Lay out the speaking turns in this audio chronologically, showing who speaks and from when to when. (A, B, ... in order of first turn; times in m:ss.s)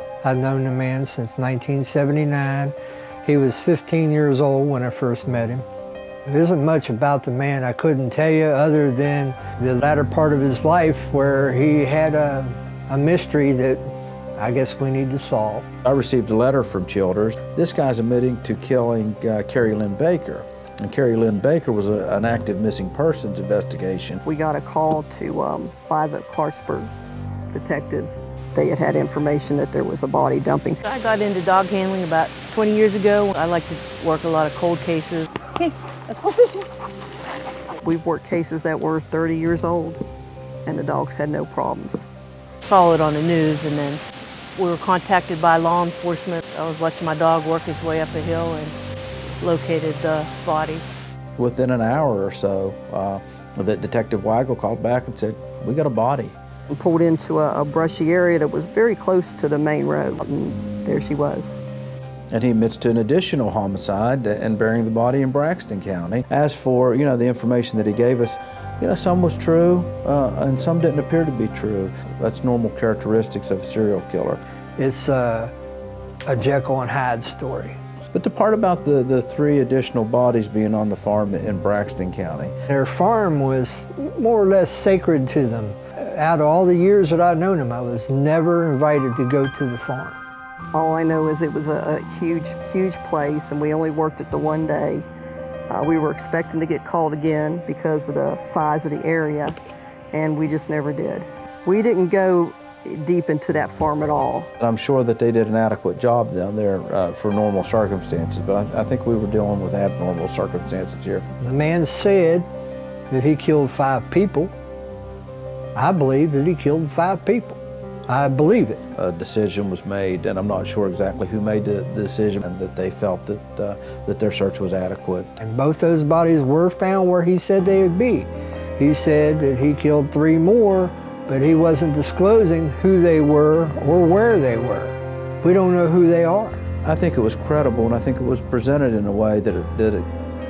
0:00.2-0:05.6 A
0:06.3-0:13.8 A
0:14.4-0:15.6 A
0:15.8-0:24.2 B
0:24.2-0:26.9 C
0:27.5-0:30.8 C
0:30.8-0:36.6 D
0:37.8-0:40.0 C
0:40.6-0:42.0 C
0:42.6-0:44.0 D
0:44.6-0:48.8 D
0:49.4-0:50.8 D
0:51.4-0:56.4 B
0:56.7-1:01.6 C
1:02.3-1:14.4 B
1:14.8-1:15.5 A
1:16.3-1:17.8 A
1:18.1-1:22.5 B
1:22.7-1:30.2 A
1:30.7-1:35.1 C
1:35.7-1:39.5 C
1:40.1-1:44.5 C
1:44.6-1:51.2 B
1:51.4-1:52.5 A
1:53.1-1:54.5 A
1:55.7-1:58.8 A
1:59.0-2:05.3 B
2:05.4-2:16.6 A
2:16.8-2:20.1 B